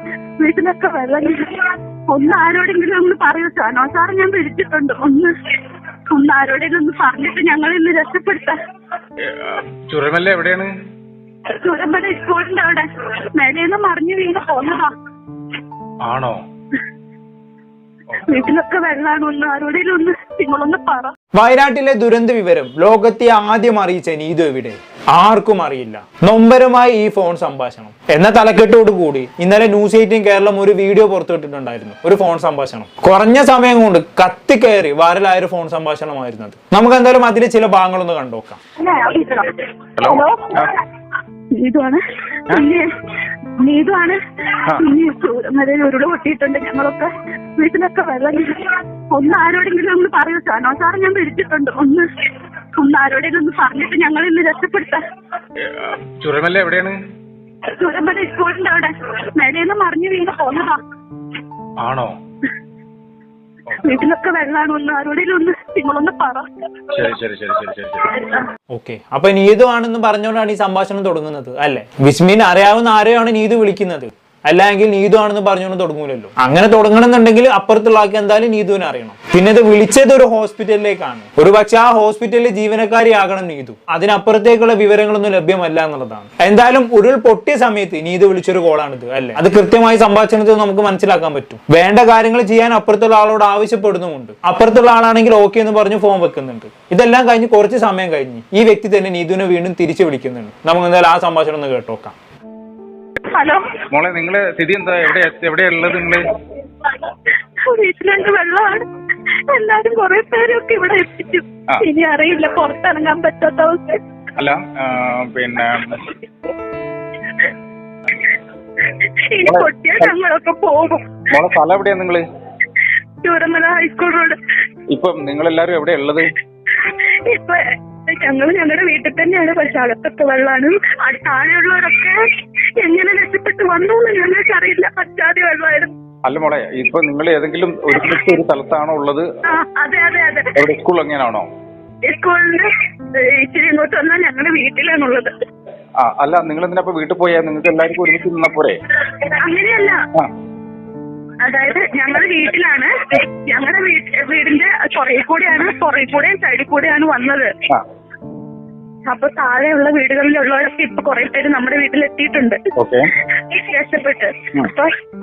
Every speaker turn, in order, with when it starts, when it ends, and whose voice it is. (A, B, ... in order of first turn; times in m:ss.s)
0:00.4-0:05.3 A
0:06.1-0:08.6 A
0:09.2-0:10.7 B
0:11.5-0:14.9 A
0:16.0-0:16.4 B
0:18.2-0:21.1 A
0:21.4-0:38.6 C
0:38.8-0:40.6 A
0:40.0-0:40.7 B
0:41.6-0:42.9 A
0:43.6-0:44.2 A
0:44.7-0:52.1 A
0:52.8-0:55.0 A
0:55.6-0:57.0 B
0:57.7-1:00.8 A
1:01.8-1:02.1 B
1:03.8-1:06.5 A
1:06.9-1:08.1 B
1:08.7-1:42.2 C
1:43.3-1:43.7 A
1:43.9-1:46.2 B
1:47.1-1:48.9 A
1:49.5-1:54.0 A
1:54.4-1:56.0 B
1:58.9-2:01.2 A
1:59.5-2:00.1 B
2:01.3-2:02.2 B
2:03.2-2:04.4 A
2:04.9-2:06.3 B
2:06.8-2:12.2 A
2:12.8-2:15.9 A
2:16.3-2:19.2 B
2:19.5-2:20.5 A
2:20.6-2:21.5 B
2:22.0-2:25.3 A
2:26.0-2:28.8 B
2:29.2-2:30.0 A
2:31.4-2:37.5 A
2:39.1-2:42.6 A
2:42.8-2:43.1 B
2:43.5-2:44.9 A